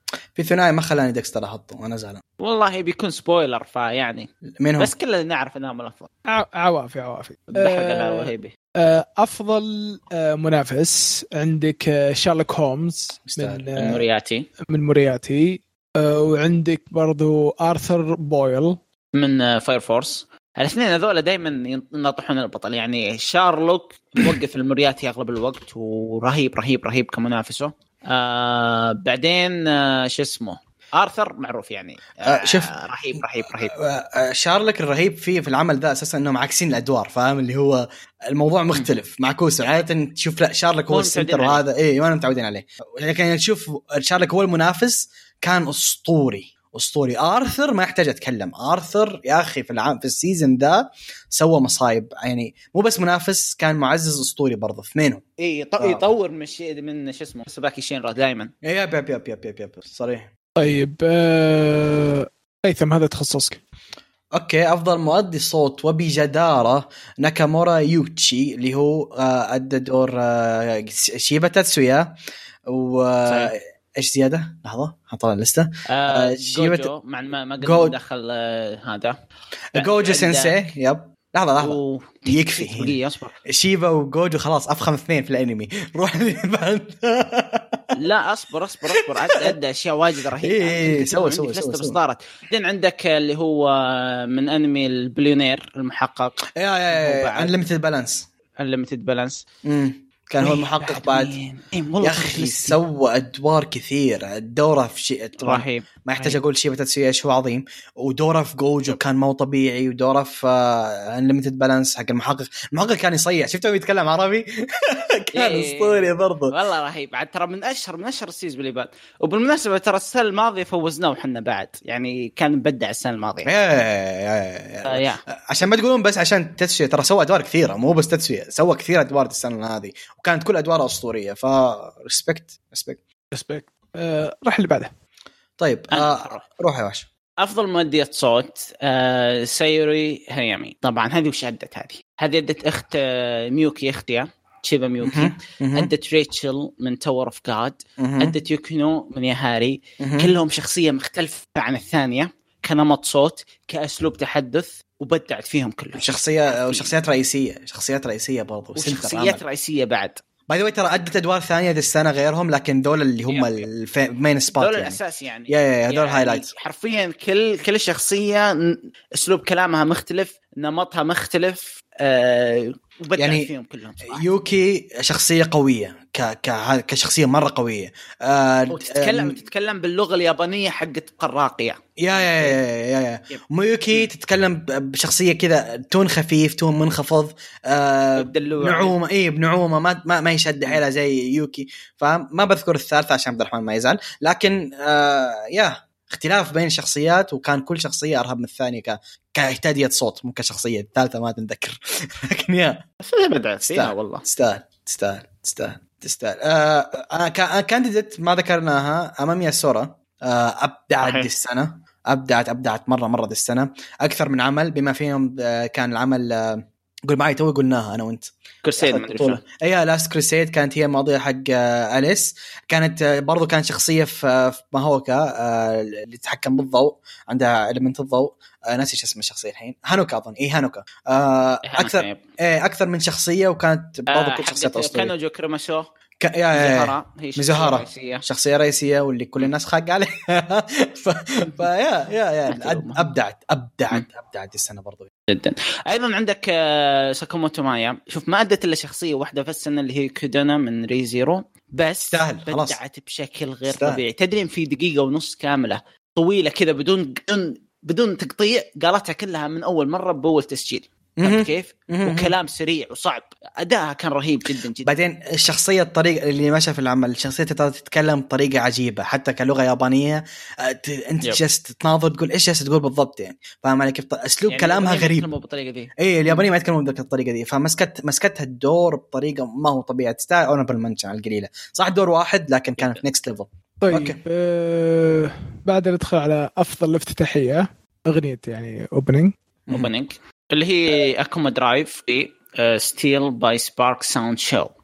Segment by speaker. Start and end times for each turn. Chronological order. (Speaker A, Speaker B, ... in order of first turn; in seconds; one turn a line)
Speaker A: 0.3-2.2
Speaker B: 2.4-6.1
Speaker A: 4.6-4.9
Speaker C: 6.2-14.0
Speaker B: 7.5-8.5
Speaker A: 13.2-13.8
Speaker B: 13.8-14.5
Speaker C: 14.7-18.8
Speaker B: 19.1-33.7
Speaker A: 32.2-55.2
Speaker B: 40.9-41.6
Speaker B: 55.4-58.5
Speaker A: 55.8-56.0
Speaker A: 58.6-60.3
Speaker C: 60.6-63.6
Speaker A: 64.3-72.2
Speaker A: 72.7-76.9
Speaker B: 73.2-73.5
Speaker B: 75.9-79.2
Speaker A: 77.6-78.0
Speaker A: 79.7-87.9
Speaker B: 79.8-80.6
Speaker B: 81.6-83.3
Speaker B: 88.0-96.4
Speaker A: 89.0-89.5
Speaker A: 90.4-92.0
Speaker A: 96.5-98.3
Speaker B: 96.9-97.5
Speaker B: 98.6-99.4
Speaker A: 99.6-101.3
Speaker B: 100.4-102.8
Speaker A: 102.0-116.5
Speaker B: 105.4-106.4
Speaker B: 115.3-123.5
Speaker A: 123.4-133.0
Speaker B: 124.8-125.2
Speaker C: 133.3-134.9
Speaker A: 135.6-137.1
Speaker B: 135.9-136.4
Speaker B: 137.4-156.9
Speaker A: 145.0-145.9
Speaker A: 148.0-148.3
Speaker A: 150.0-150.3
Speaker A: 156.0-159.4
Speaker B: 158.8-160.2
Speaker A: 160.5-166.5
Speaker B: 163.3-163.7
Speaker B: 164.5-174.2
Speaker A: 173.2-173.5
Speaker A: 174.1-179.4
Speaker B: 178.7-182.6
Speaker A: 182.0-202.8
Speaker B: 183.3-184.1
Speaker B: 188.2-188.9
Speaker B: 203.0-204.2
Speaker A: 203.6-235.1
Speaker B: 211.0-211.3
Speaker B: 218.6-219.4
Speaker B: 231.7-232.2
Speaker B: 234.1-235.9
Speaker A: 236.2-245.1
Speaker B: 236.5-238.2
Speaker B: 242.5-243.1
Speaker B: 245.3-264.9
Speaker A: 252.1-252.8
Speaker A: 253.7-254.0
Speaker A: 261.2-262.3
Speaker A: 264.8-275.3
Speaker B: 274.5-276.5
Speaker A: 276.0-284.2
Speaker C: 283.8-289.3
Speaker B: 289.7-294.7